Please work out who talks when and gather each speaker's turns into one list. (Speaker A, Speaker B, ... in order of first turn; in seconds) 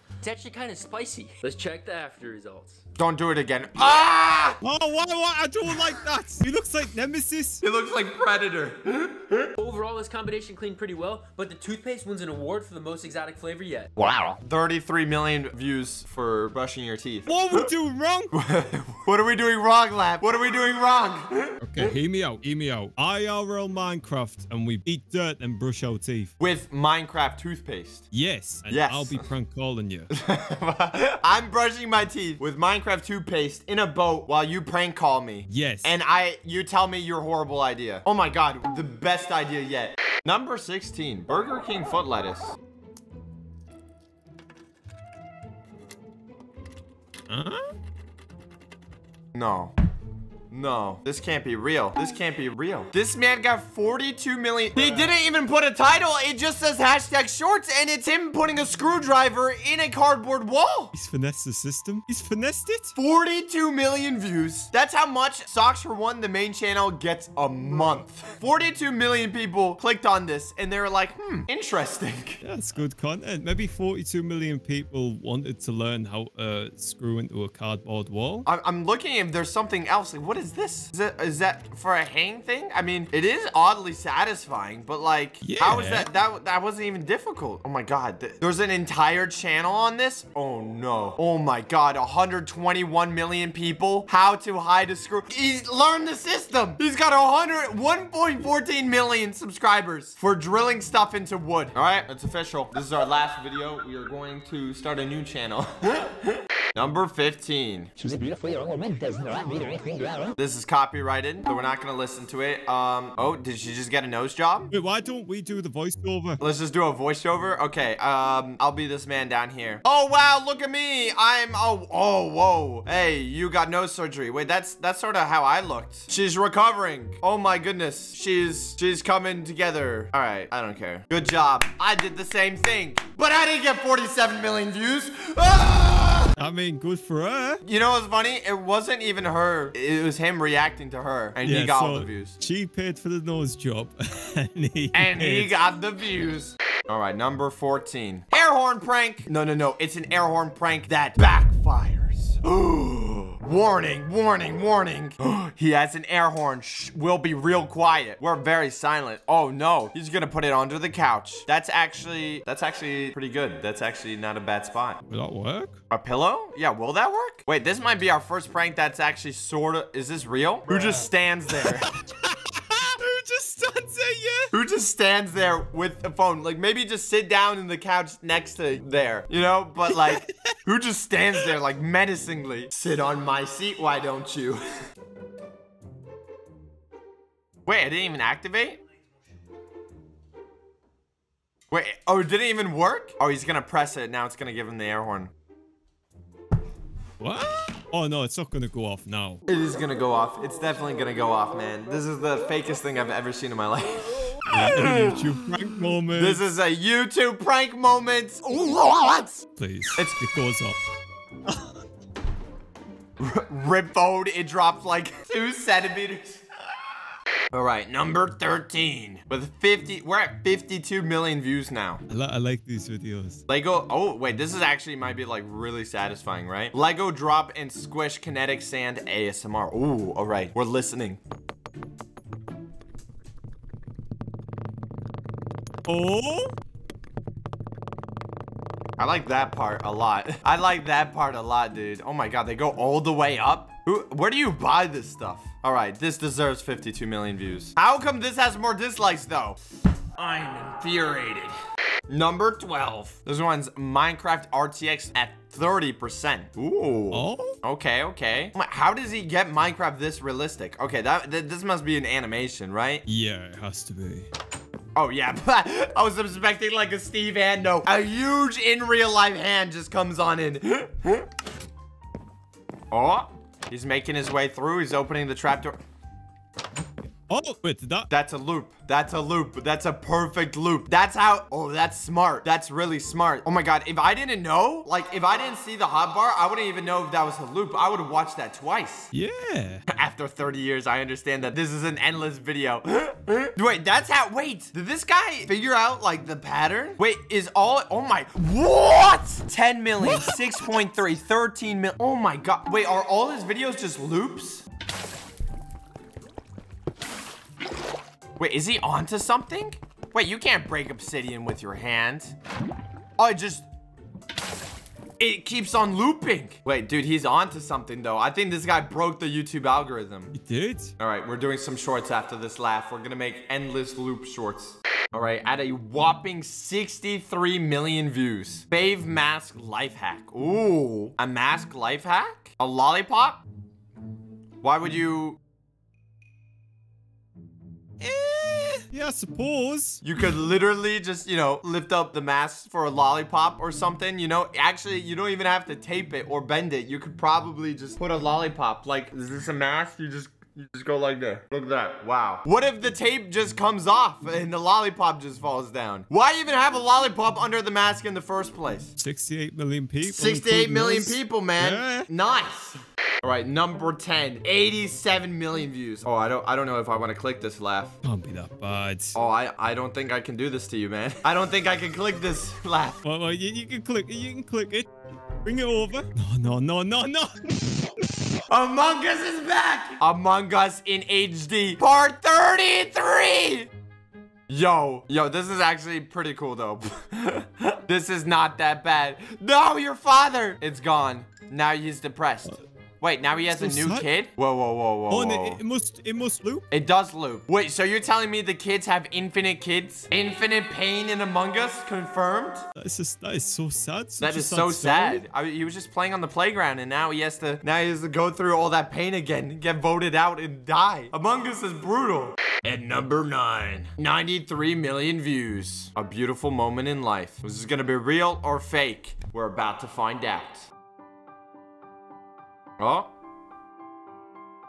Speaker A: 0.2-2.8, 9.6-13.9
Speaker B: 3.0-4.6, 7.6-9.5, 14.0-17.7, 18.3-21.9, 26.4-28.1, 28.7-29.3, 30.1-42.6, 49.3-49.7, 50.5-60.9, 62.9-72.4, 78.4-107.9, 110.3-114.7, 116.4-136.3, 137.6-142.3, 144.9-165.0, 165.9-171.9, 174.5-184.6, 187.7-188.8, 191.7-195.3, 199.5-205.3, 206.1-210.2, 213.2-216.4, 217.5-222.0, 223.5-231.2, 239.0-249.6, 250.2-251.5, 252.1-263.0, 264.9-271.2, 272.9-275.8, 278.1-289.1, 289.9-304.6, 308.4-312.4, 313.2-313.7, 315.2-320.3, 321.0-333.4, 334.6-335.4, 340.0-358.9, 360.0-368.0, 369.1-373.0, 378.5-383.7, 384.5-395.6, 396.7-402.7, 404.2-420.7, 422.8-423.1
Speaker C: 4.6-7.6, 17.3-18.3, 21.6-26.3, 28.1-30.1, 35.5-36.0, 47.3-47.6, 60.9-62.9, 72.4-78.5, 85.4-86.1, 114.7-116.4, 136.4-137.6, 141.4-145.6, 165.1-165.8, 170.8-174.5, 179.9-180.5, 197.2-199.4, 204.5-206.4, 209.6-210.8, 222.1-223.4, 235.9-236.6, 257.1-257.6, 263.1-264.3, 277.3-278.1, 289.1-289.8, 300.0-300.4, 320.3-320.9, 338.0-340.0, 359.0-362.1, 368.0-369.2, 373.0-378.1, 393.5-394.1, 395.1-396.7, 402.8-405.2